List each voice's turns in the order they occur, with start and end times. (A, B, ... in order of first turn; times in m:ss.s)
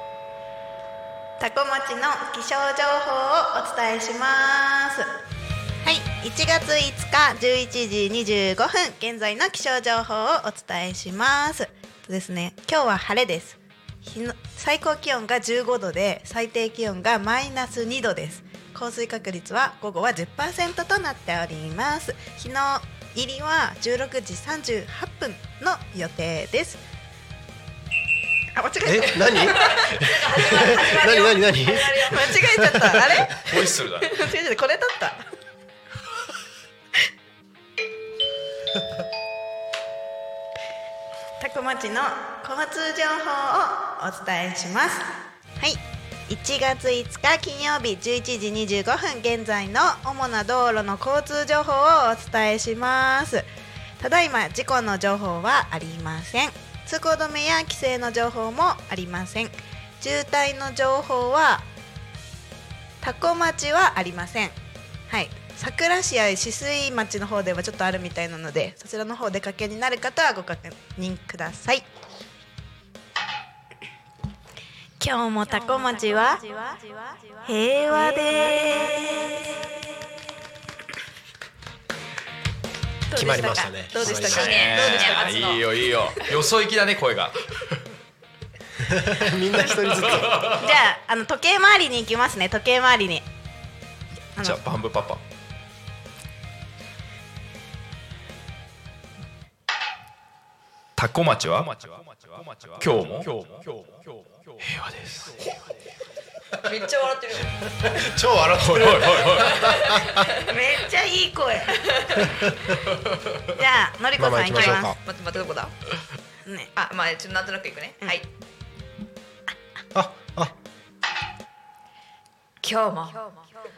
0:01.4-0:05.1 A
0:05.8-0:26.8 A
0:28.5-0:29.8 A
0:28.8-0:33.0 B
0:29.4-0:32.4 C
0:32.1-0:35.2 A
0:33.4-0:34.2 D
0:41.4-0:53.5 A
0:54.0-1:01.6 A
1:03.0-1:04.6 A
1:05.1-1:11.8 A
1:15.0-1:19.6 A
1:23.1-1:25.3 A
1:23.1-1:24.6 B
1:24.0-1:25.8 C
1:24.1-1:27.3 D
1:28.8-1:30.5 B
1:29.7-1:30.6 D
1:30.5-1:33.2 A
1:34.4-1:34.6 A
1:34.4-1:35.2 D
1:41.0-1:45.4 D
1:46.6-1:47.6 C
1:48.0-1:50.2 B
1:48.6-1:49.6 D
1:49.5-1:50.4 C
1:50.5-1:51.7 A
1:51.8-1:52.3 C
1:52.2-1:52.5 B
1:53.6-1:54.9 A
1:54.2-1:55.0 B
1:54.5-1:55.8 C
1:56.8-1:58.2 C
1:59.9-2:00.5 B
2:02.6-2:03.5 C